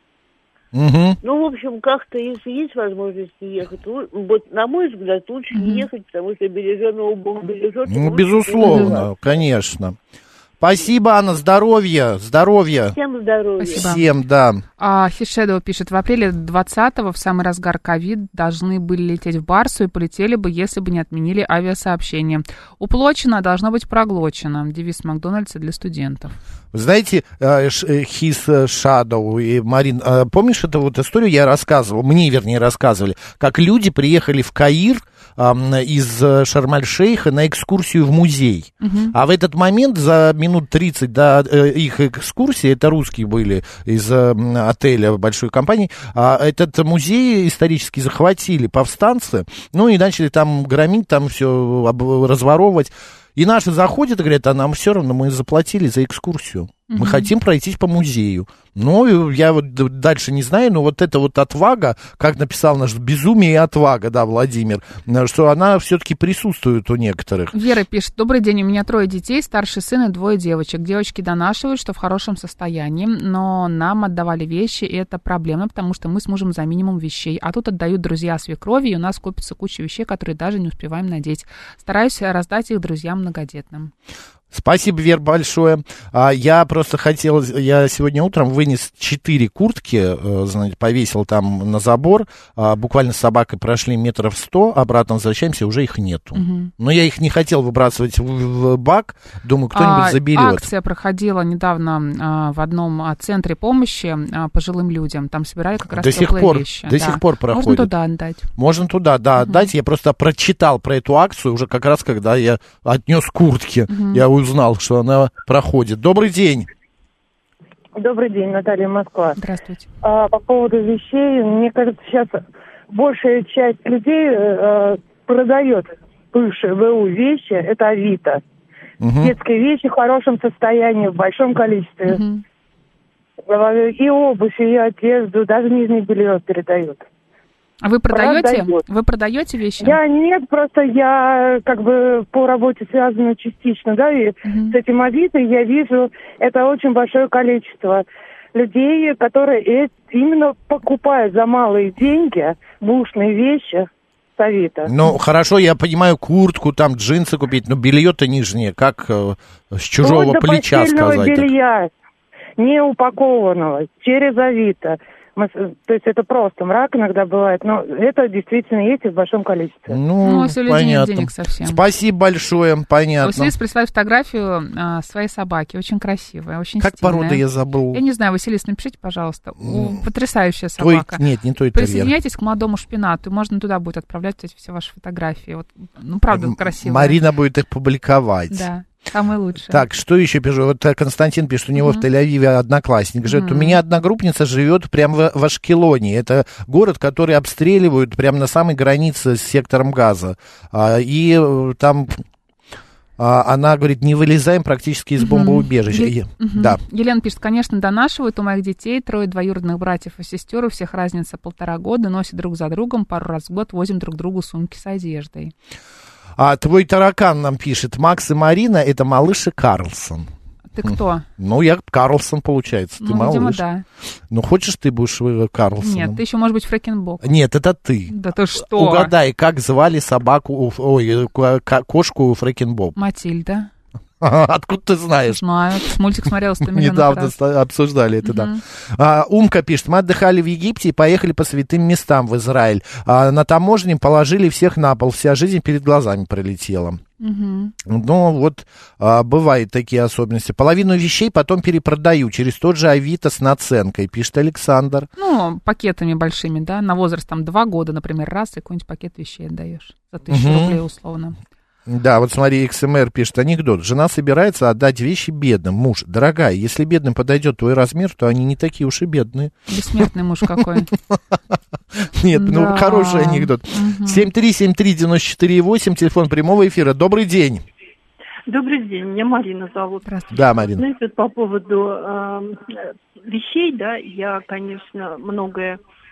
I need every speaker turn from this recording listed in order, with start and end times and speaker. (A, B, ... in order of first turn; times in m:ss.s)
0:00.7-0:01.2 A
0:01.2-0:09.2 B
0:05.5-0:05.9 C
0:07.9-0:10.0 A
0:08.6-0:09.0 C
0:10.6-0:13.0 A
0:12.9-0:13.9 B
0:13.6-0:14.1 C
0:13.7-0:14.6 A
0:14.8-0:26.3 C
0:26.7-1:07.5 A
0:38.8-0:39.1 C
0:56.9-0:57.3 C
1:07.5-1:23.9 C
1:24.5-1:40.7 A
1:36.4-1:36.7 C
1:39.7-1:48.5 C
1:45.9-1:47.9 A
1:48.6-1:56.7 A
1:49.4-1:49.7 C
1:53.9-1:54.2 C
1:58.0-1:59.4 D
1:59.4-1:59.9 C
2:00.0-2:08.4 D
2:09.0-2:09.3 A
2:09.2-2:12.2 D
2:12.1-2:12.4 C
2:13.5-2:17.0 D
2:17.8-2:20.0 C
2:18.1-2:18.8 D
2:19.8-2:34.9 D
2:24.5-2:24.8 C
2:34.9-2:41.5 A
2:40.0-2:41.9 D
2:42.6-2:50.0 D
2:49.9-2:53.5 A
2:50.2-2:51.8 C
2:53.2-3:01.2 C
2:56.8-2:58.0 A
2:59.6-3:00.0 A
3:00.8-3:02.1 A
3:01.7-3:07.2 C
3:06.3-3:08.7 A
3:08.5-3:09.8 C
3:09.7-3:22.2 A
3:11.8-3:12.1 C
3:13.3-3:13.8 C
3:23.2-3:26.8 A
3:25.2-3:35.5 C
3:36.4-3:40.3 A
3:40.7-3:41.3 C
3:40.8-3:43.6 A
3:43.0-3:43.8 C
3:44.3-3:46.2 A
3:45.8-3:47.2 C
3:47.2-3:53.0 A
3:48.1-3:49.1 C
3:53.0-3:53.7 C
3:54.2-3:55.4 A
3:55.3-3:57.4 C
3:56.6-4:07.0 A
3:58.2-3:58.6 C
4:07.2-4:07.7 C
4:07.8-4:15.1 A
4:15.2-4:21.4 C
4:20.3-4:20.8 A
4:21.9-4:31.2 A
4:29.7-4:30.9 C
4:32.0-4:37.6 A
4:32.3-4:34.3 C
4:38.5-4:40.1 E
4:40.0-4:40.6 C
4:40.3-4:40.8 A
4:40.6-4:45.8 E